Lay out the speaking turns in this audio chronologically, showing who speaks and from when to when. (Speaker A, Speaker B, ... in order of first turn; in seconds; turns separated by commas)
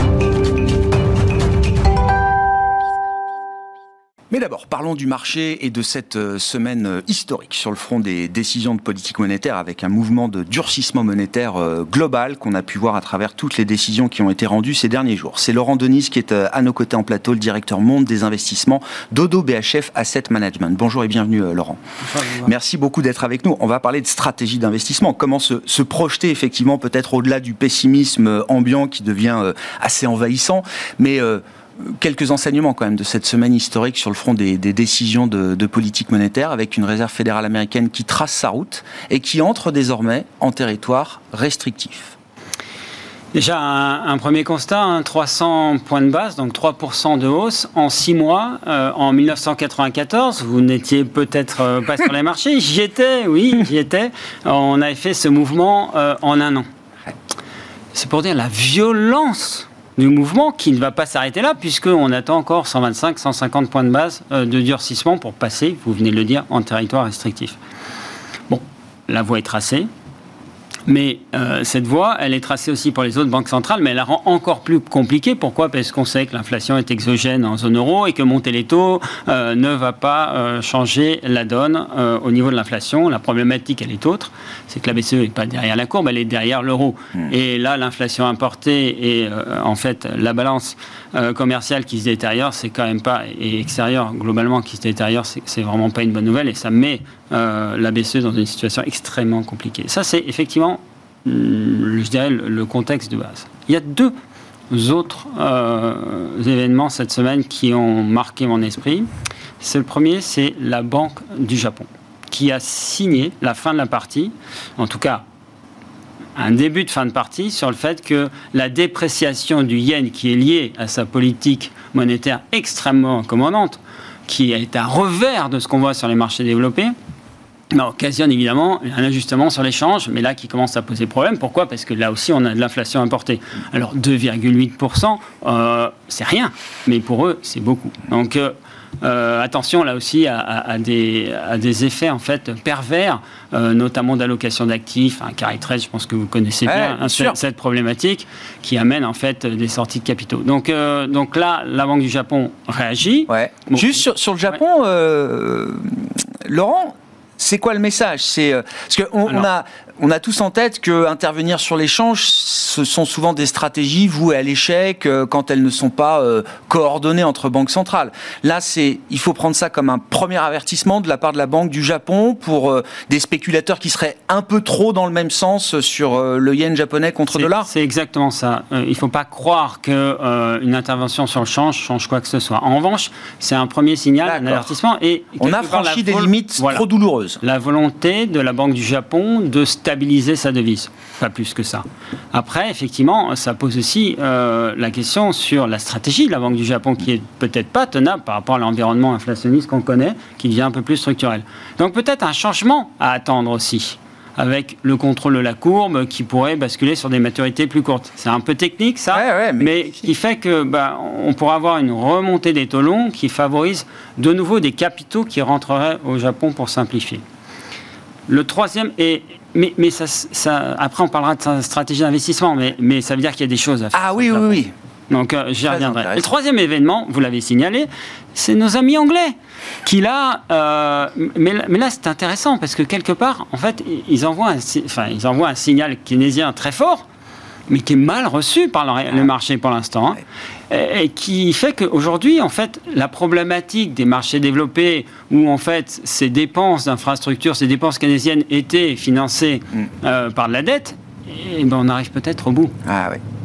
Speaker A: 4.3-21.8, Speaker B: 22.1-22.5, Speaker A: 22.4-42.1, Speaker B: 43.3-56.6, Speaker B: 57.9-67.5, Speaker B: 68.5-69.9, Speaker B: 70.9-104.1, Speaker B: 104.7-115.2, Speaker B: 116.3-126.9, Speaker B: 127.7-154.0, Speaker A: 146.7-147.4, Speaker A: 153.3-177.7, Speaker B: 177.3-186.8, Speaker A: 184.2-184.7, Speaker A: 185.4-187.4, Speaker B: 187.4-217.2, Speaker A: 209.1-209.7, Speaker B: 218.3-224.6, Speaker A: 223.9-224.7, Speaker B: 225.1-237.1, Speaker A: 225.7-226.2, Speaker B: 237.7-252.7, Speaker A: 252.8-253.2